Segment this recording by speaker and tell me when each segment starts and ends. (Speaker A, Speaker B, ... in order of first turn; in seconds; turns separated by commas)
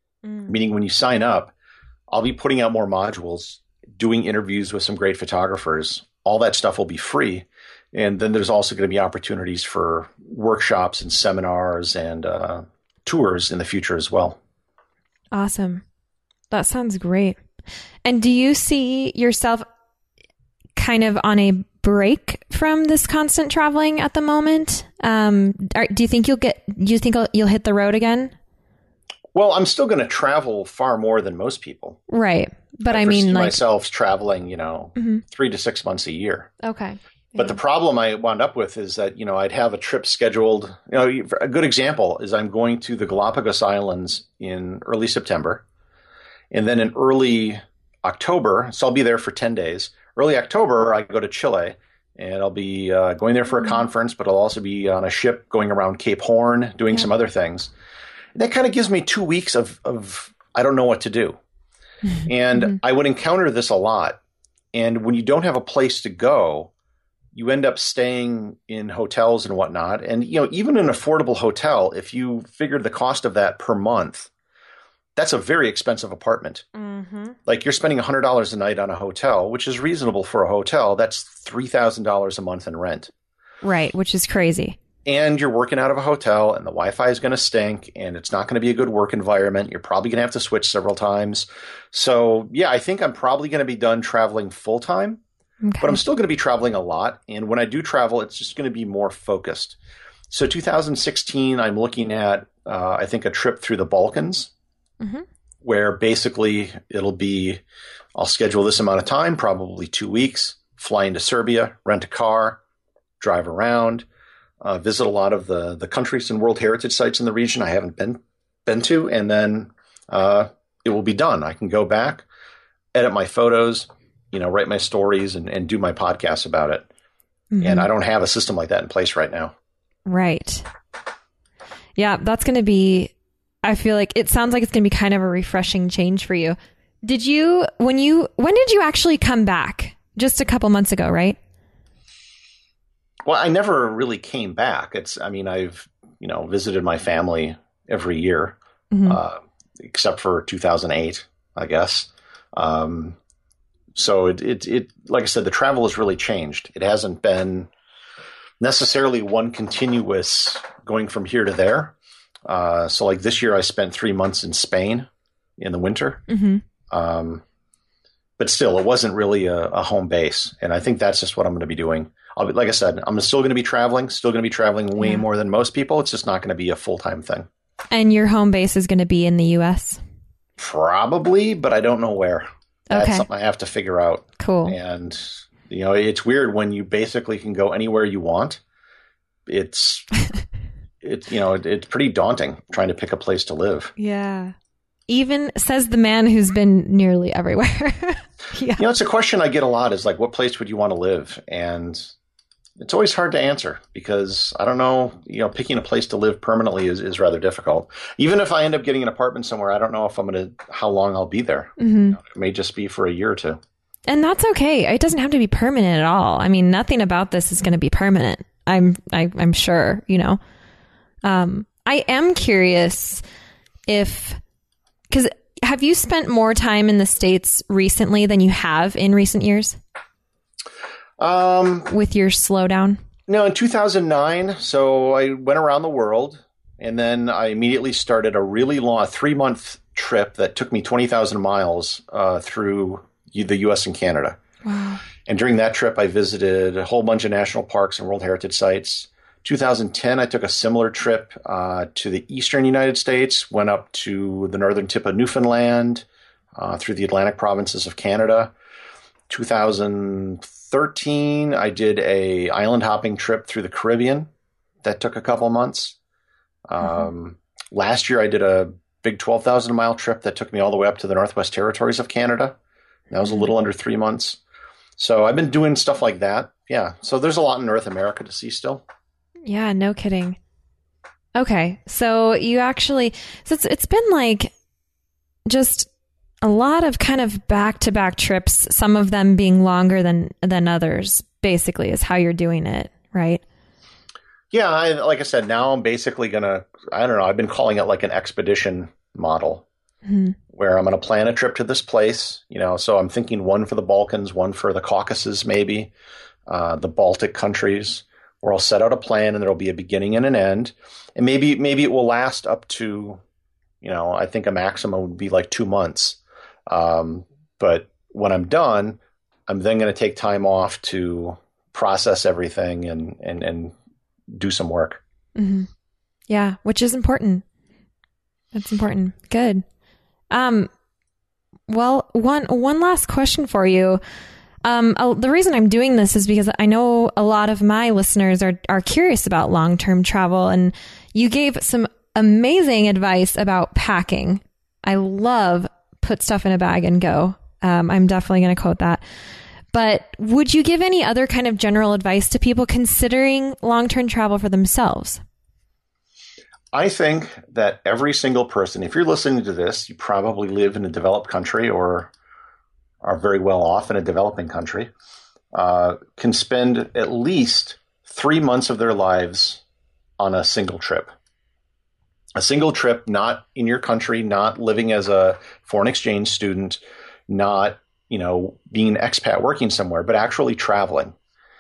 Speaker A: 0.2-0.6, Speaker B: 0.5-1.5, Speaker B: 2.1-14.4, Speaker A: 15.3-15.8, Speaker A: 16.5-17.4, Speaker A: 18.1-19.7, Speaker A: 20.8-28.3, Speaker B: 29.3-32.0, Speaker A: 32.1-33.6, Speaker B: 32.9-36.5, Speaker A: 35.0-35.2, Speaker A: 36.6-37.6, Speaker B: 37.4-45.6, Speaker B: 46.5-57.7, Speaker B: 58.4-61.4, Speaker A: 62.1-62.8, Speaker B: 62.3-64.2, Speaker B: 64.7-66.7, Speaker B: 67.3-74.3, Speaker B: 75.2-76.7, Speaker A: 76.8-77.4, Speaker B: 77.5-83.1, Speaker A: 83.6-84.8, Speaker B: 85.0-95.2, Speaker A: 95.6-96.0, Speaker B: 95.8-99.8, Speaker B: 100.3-104.5, Speaker B: 105.6-107.6, Speaker B: 108.2-112.6, Speaker B: 113.2-114.0, Speaker B: 114.6-122.2, Speaker B: 122.9-126.9, Speaker A: 127.5-127.9, Speaker B: 127.6-129.5, Speaker A: 130.1-130.6, Speaker A: 132.0-133.1, Speaker A: 133.6-141.4, Speaker B: 143.3-153.2, Speaker A: 148.9-149.2, Speaker B: 153.9-157.7, Speaker B: 158.6-161.9, Speaker B: 162.5-166.2, Speaker A: 166.3-166.6, Speaker B: 166.9-167.4, Speaker B: 168.4-177.5, Speaker A: 175.0-175.2, Speaker A: 177.9-180.0, Speaker B: 180.6-188.6, Speaker A: 182.9-183.3, Speaker A: 184.4-184.8, Speaker B: 189.5-190.1, Speaker B: 191.0-193.9, Speaker A: 194.0-194.5, Speaker A: 195.1-198.8, Speaker B: 198.8-202.1, Speaker B: 202.8-213.6, Speaker A: 211.8-212.2, Speaker A: 214.1-220.4, Speaker A: 221.2-223.2, Speaker A: 223.9-224.4, Speaker A: 225.1-229.8, Speaker B: 231.2-231.9, Speaker A: 231.9-233.0, Speaker B: 233.3-244.4, Speaker A: 244.7-245.0, Speaker B: 245.2-258.5, Speaker B: 259.3-264.3, Speaker B: 264.8-266.0, Speaker B: 266.7-272.6, Speaker B: 273.1-274.4, Speaker B: 275.0-278.8, Speaker A: 279.5-280.4, Speaker A: 281.4-284.5, Speaker A: 285.5-285.9, Speaker A: 286.4-293.4, Speaker B: 294.5-299.7, Speaker A: 300.1-300.4, Speaker B: 300.5-305.9, Speaker B: 306.5-313.2, Speaker B: 313.8-323.7, Speaker B: 324.3-325.0, Speaker A: 325.4-325.7, Speaker A: 326.3-327.4, Speaker A: 328.5-329.6, Speaker A: 330.3-330.7, Speaker A: 331.7-334.0, Speaker A: 334.6-349.0, Speaker A: 349.7-355.2, Speaker B: 356.7-362.1, Speaker B: 363.0-364.9, Speaker B: 365.5-369.6, Speaker B: 370.2-371.1, Speaker B: 372.4-381.1